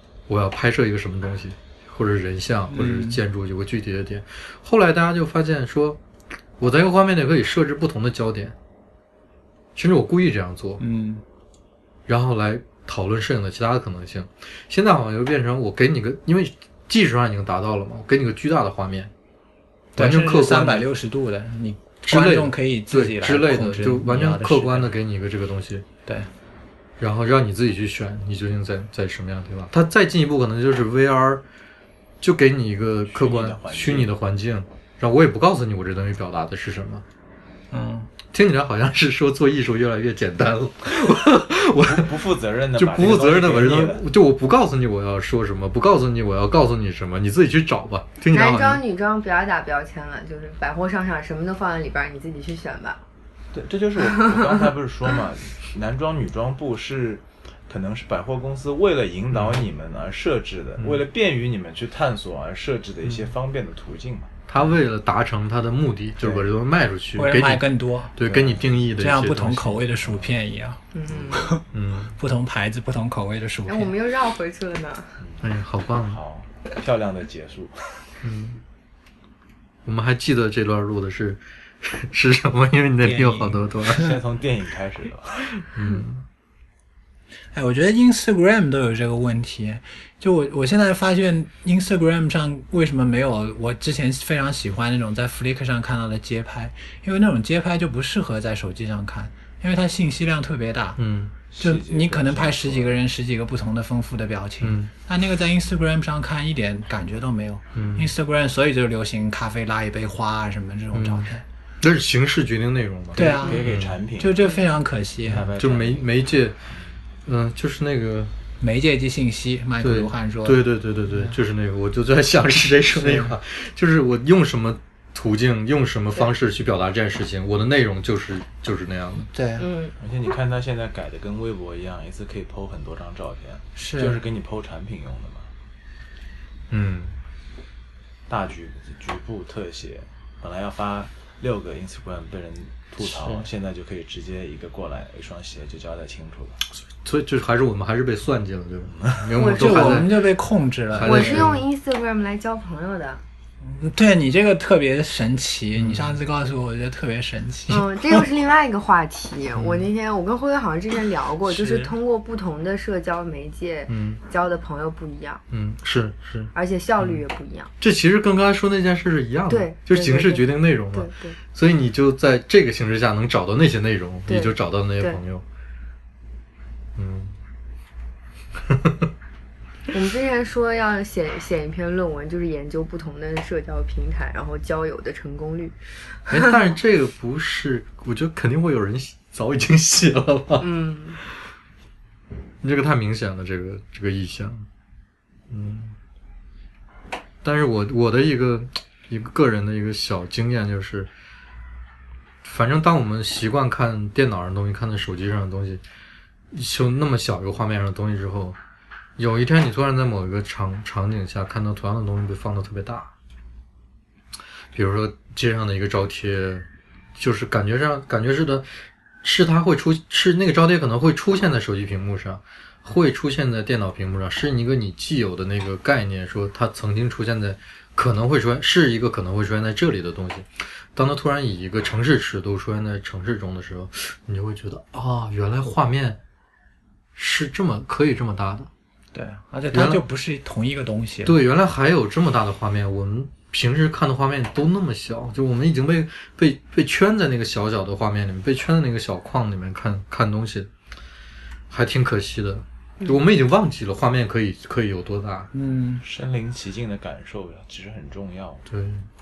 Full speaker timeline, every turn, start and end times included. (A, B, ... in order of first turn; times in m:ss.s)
0:00.3-0:06.0 A
0:02.7-0:03.2 B
0:06.6-0:08.6 A
0:09.8-0:10.8 A
0:10.8-0:11.2 B
0:12.1-0:19.1 A
0:20.0-0:25.0 B
0:20.0-0:20.9 A
0:22.0-0:25.9 A
0:27.0-0:31.4 A
0:32.2-0:37.0 A
0:33.0-0:34.1 C
0:37.7-0:38.1 B
0:38.3-0:42.1 A
0:41.8-0:44.0 C
0:42.8-0:48.8 A
0:48.3-0:53.0 D
0:53.5-1:04.7 C
0:54.2-0:54.7 D
0:59.3-0:59.6 A
1:04.5-1:09.9 A
1:06.2-1:06.5 C
1:07.2-1:08.2 B
1:08.2-1:08.8 C
1:09.0-1:10.8 B
1:10.0-1:10.4 C
1:10.9-1:11.6 D
1:11.1-1:11.6 C
1:11.3-1:11.6 B
1:11.7-1:12.2 A
1:12.2-1:13.9 B
1:13.7-1:15.2 D
1:15.2-1:18.1 C
1:15.4-1:16.2 A
1:18.2-1:18.6 A
1:19.9-1:24.1 A
1:23.0-1:23.9 B
1:23.9-1:25.6 C
1:25.7-1:26.2 A
1:27.5-1:41.0 B
1:41.0-1:41.3 A
1:41.5-1:43.0 C
1:41.6-1:51.4 B
1:44.6-1:44.9 A
1:47.7-1:48.1 A
1:50.9-1:54.0 A
1:53.1-1:54.5 C
1:53.2-1:53.6 B
1:54.2-1:55.5 B
1:55.2-1:57.0 C
1:55.3-1:56.6 A
1:57.2-1:58.3 A
1:58.6-2:01.4 B
1:59.8-2:09.3 A
2:03.0-2:03.3 B
2:09.3-2:09.7 B
2:09.6-2:10.0 D
2:10.0-2:15.5 C
2:13.8-2:14.2 B
2:16.7-2:17.2 A
2:18.3-2:26.6 C
2:23.0-2:23.5 B
2:26.9-2:30.2 A
2:28.9-2:29.4 C
2:29.4-2:30.1 D
2:29.6-2:31.5 B
2:30.9-2:31.7 A
2:31.0-2:33.2 D
2:33.6-2:37.9 B
2:35.8-2:36.2 A
2:37.7-2:45.4 D
2:39.6-2:39.9 A
2:41.5-2:41.9 B
2:43.9-2:44.2 A
2:45.5-2:47.2 A
2:46.6-2:47.7 D
2:47.8-2:55.4 A
2:49.5-2:51.4 D
2:54.3-2:55.2 D
2:57.0-2:57.4 A
2:58.7-2:59.1 A
2:59.9-3:06.6 D
3:06.3-3:10.7 A
3:10.6-3:11.2 D
3:12.6-3:14.7 A
3:15.5-3:16.0 A
3:17.4-3:21.1 A
3:22.4-3:25.8 A
3:26.5-3:28.6 A
3:29.2-3:33.1 A
3:34.7-3:38.7 A
3:39.2-3:56.2 A
3:57.2-3:58.7 A
3:59.1-4:01.3 B
3:59.7-4:00.1 A
4:01.2-4:10.7 A
4:11.7-4:15.5 A
4:15.5-4:16.0 B
4:16.0-4:18.6 C
4:18.7-4:19.1 A